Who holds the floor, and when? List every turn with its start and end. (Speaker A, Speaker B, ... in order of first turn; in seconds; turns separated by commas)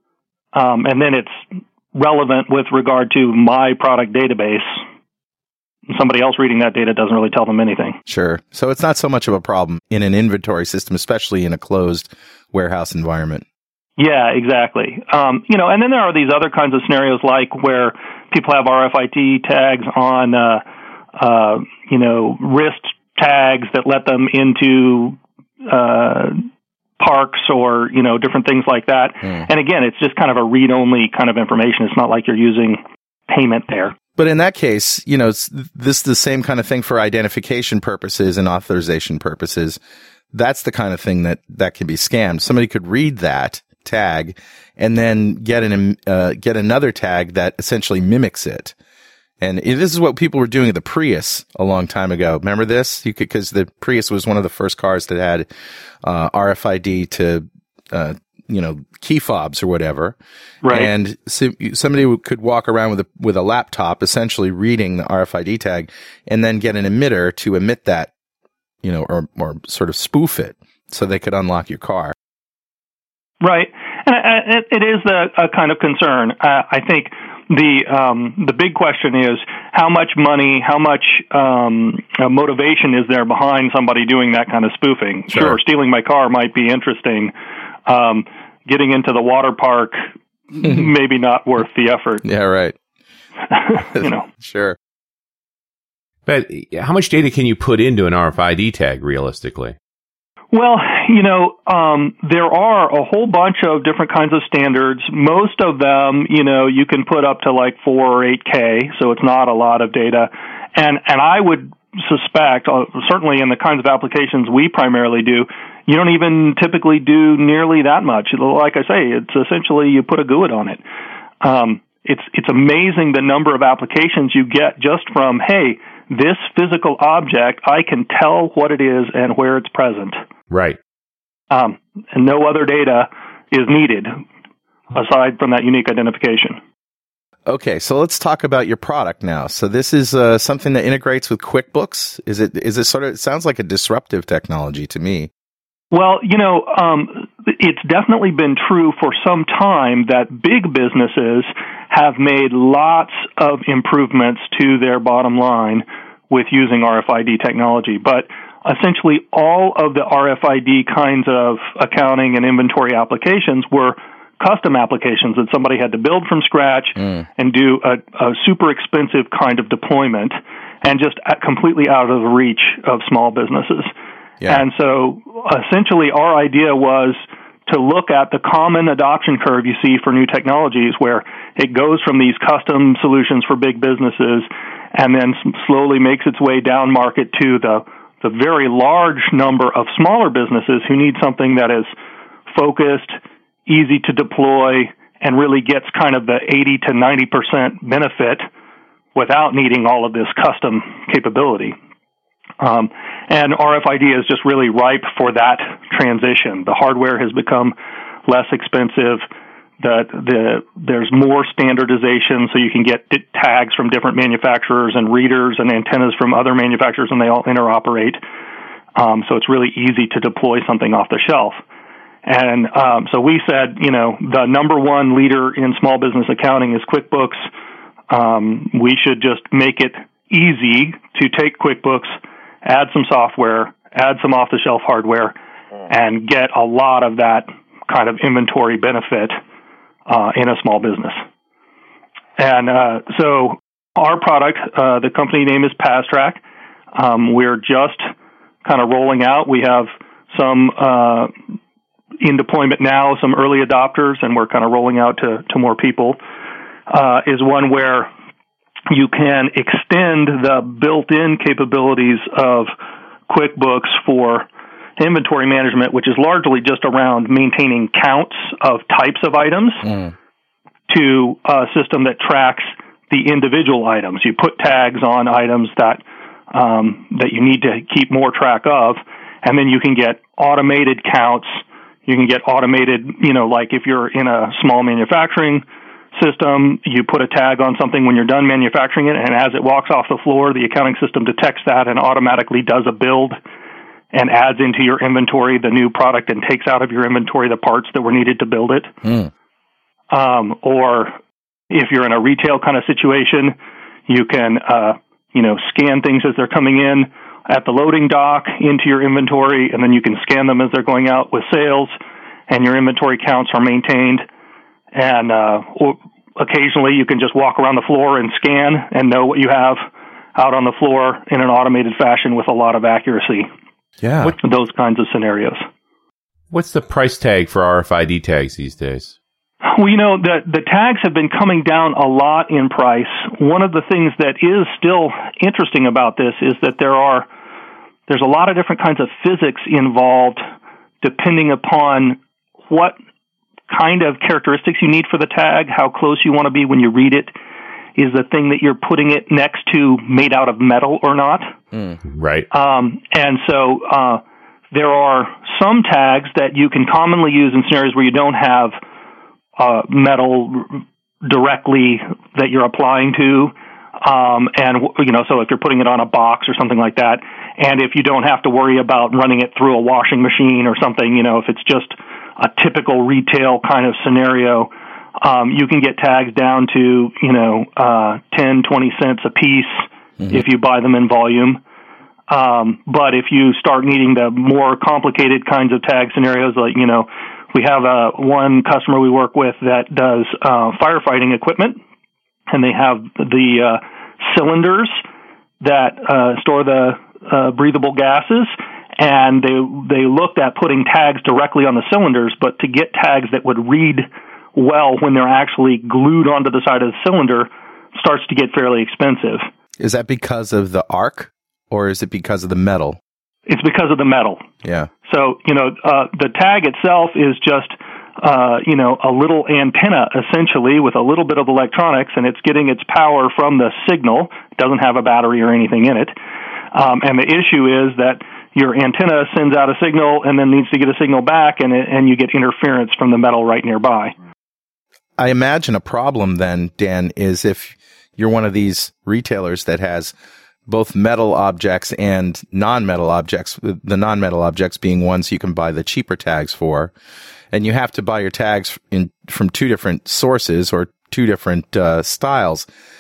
Speaker A: 0.5-4.8, Speaker A: 5.9-8.0, Speaker B: 8.1-13.4, Speaker A: 14.0-20.6, Speaker A: 21.2-26.4, Speaker A: 27.0-34.0, Speaker B: 34.2-39.8, Speaker B: 40.3-48.7, Speaker B: 49.4-55.5, Speaker B: 56.0-68.1, Speaker A: 60.6-60.9, Speaker B: 68.8-72.2, Speaker A: 73.4-87.3, Speaker B: 85.3-85.6, Speaker A: 87.9-92.2, Speaker B: 92.2-92.8, Speaker A: 93.5-94.3, Speaker B: 94.0-94.8, Speaker C: 96.3-99.8, Speaker A: 100.5-120.8, Speaker A: 121.4-130.2, Speaker C: 130.5-130.8, Speaker A: 131.5-134.2, Speaker A: 134.9-136.6, Speaker B: 137.5-145.3, Speaker A: 145.9-173.9, Speaker B: 167.0-167.2, Speaker B: 174.4-174.7, Speaker A: 174.5-191.9, Speaker A: 192.5-198.5, Speaker A: 199.2-201.8, Speaker A: 202.6-207.8, Speaker A: 208.3-209.2, Speaker A: 209.8-218.2, Speaker A: 219.0-221.6, Speaker A: 222.2-227.5, Speaker A: 228.1-235.3, Speaker A: 235.9-239.4, Speaker A: 240.1-241.2, Speaker A: 242.4-246.4, Speaker A: 246.9-248.1, Speaker A: 248.6-251.3, Speaker A: 252.2-256.2, Speaker A: 256.9-258.1, Speaker A: 258.9-262.7, Speaker A: 263.3-264.5, Speaker A: 265.0-269.9, Speaker B: 269.8-270.1, Speaker A: 270.9-285.6, Speaker A: 286.1-293.4, Speaker A: 294.1-298.9, Speaker B: 299.0-299.3, Speaker A: 300.1-301.2, Speaker A: 301.7-303.6, Speaker A: 304.1-312.0, Speaker A: 312.5-314.2, Speaker A: 314.9-319.9, Speaker A: 320.4-323.5, Speaker B: 324.0-324.4, Speaker A: 324.4-325.7, Speaker C: 326.5-329.2, Speaker A: 329.6-337.3, Speaker A: 338.1-340.4, Speaker A: 341.0-343.0, Speaker A: 343.7-347.4, Speaker A: 348.0-351.5, Speaker C: 352.1-352.5, Speaker A: 352.5-358.8, Speaker A: 359.6-381.6, Speaker A: 382.3-391.8, Speaker A: 392.5-395.0, Speaker A: 395.6-409.5, Speaker B: 409.8-413.0, Speaker A: 413.5-414.4, Speaker B: 414.6-414.9, Speaker A: 415.1-426.1, Speaker A: 426.7-434.1, Speaker B: 435.2-440.1, Speaker B: 440.7-446.9, Speaker B: 447.5-452.7